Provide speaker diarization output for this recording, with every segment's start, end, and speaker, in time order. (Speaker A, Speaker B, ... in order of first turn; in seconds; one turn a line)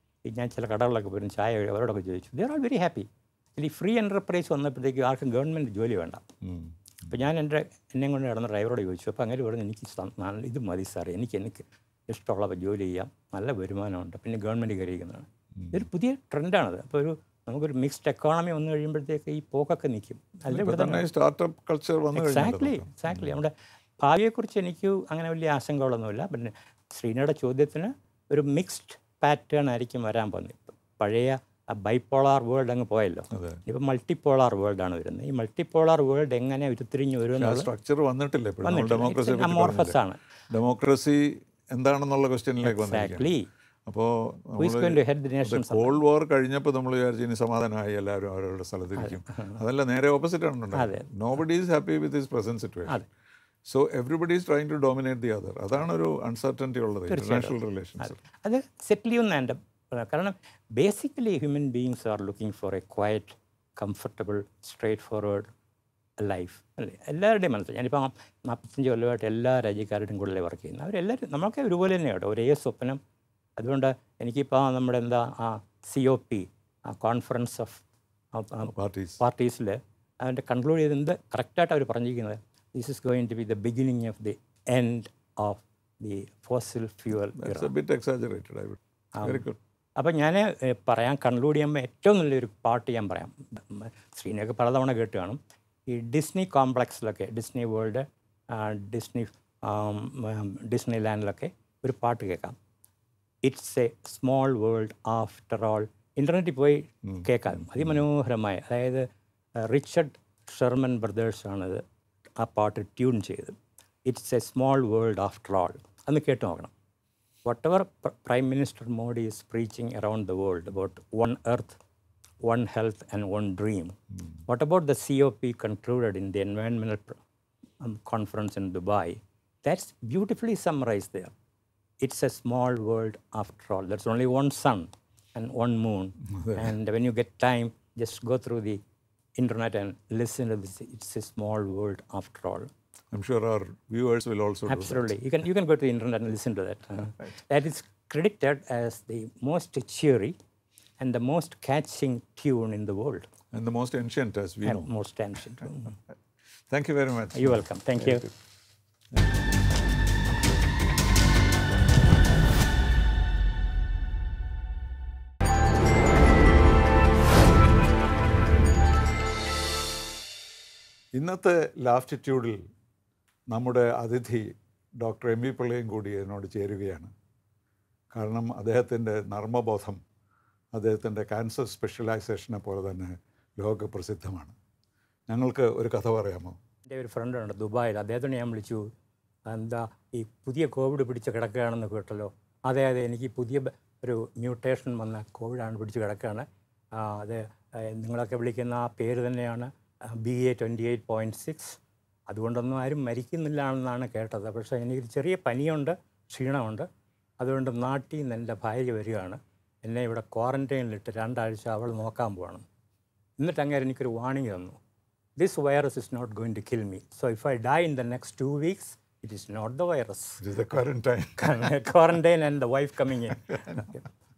Speaker A: 0.2-6.2
Speaker B: 6.4-7.2
Speaker A: 7.1-21.1
Speaker B: 15.6-15.9
Speaker B: 20.5-23.4
Speaker A: 22.1-37.7
Speaker B: 33.3-33.6
Speaker B: 37.4-40.0
Speaker A: 38.6-40.2
Speaker B: 40.5-43.3
Speaker A: 42.6-43.5
Speaker B: 43.9-53.0
Speaker A: 44.6-46.0
Speaker A: 49.0-49.6
Speaker A: 50.7-51.1
Speaker B: 53.7-58.2
Speaker A: 57.1-65.5
Speaker A: 66.2-73.0
Speaker A: 73.6-77.8
Speaker A: 78.3-87.7
Speaker B: 78.7-79.2
Speaker B: 87.3-89.6
Speaker A: 89.2-89.5
Speaker A: 90.0-102.5
Speaker A: 103.4-109.0
Speaker B: 107.1-108.0
Speaker A: 109.7-111.8
Speaker A: 112.4-113.5
Speaker A: 114.1-116.7
Speaker A: 117.5-121.8
Speaker A: 122.5-127.2
Speaker A: 127.8-131.3
Speaker A: 132.0-138.8
Speaker B: 136.4-136.7
Speaker A: 139.4-142.7
Speaker B: 143.1-145.1
Speaker A: 144.7-150.3
Speaker A: 151.0-153.3
Speaker B: 153.5-154.9
Speaker A: 154.7-156.0
Speaker B: 156.7-158.3
Speaker A: 157.3-158.2
Speaker B: 171.2-172.6
Speaker B: 173.5-174.5
Speaker B: 175.0-177.1
Speaker B: 178.1-180.0
Speaker B: 180.8-184.6
Speaker B: 185.3-186.6
Speaker A: 186.9-188.8
Speaker A: 189.5-206.9
Speaker A: 207.4-212.6
Speaker A: 213.4-214.8
Speaker A: 215.4-220.6
Speaker B: 220.4-221.7
Speaker A: 221.4-224.1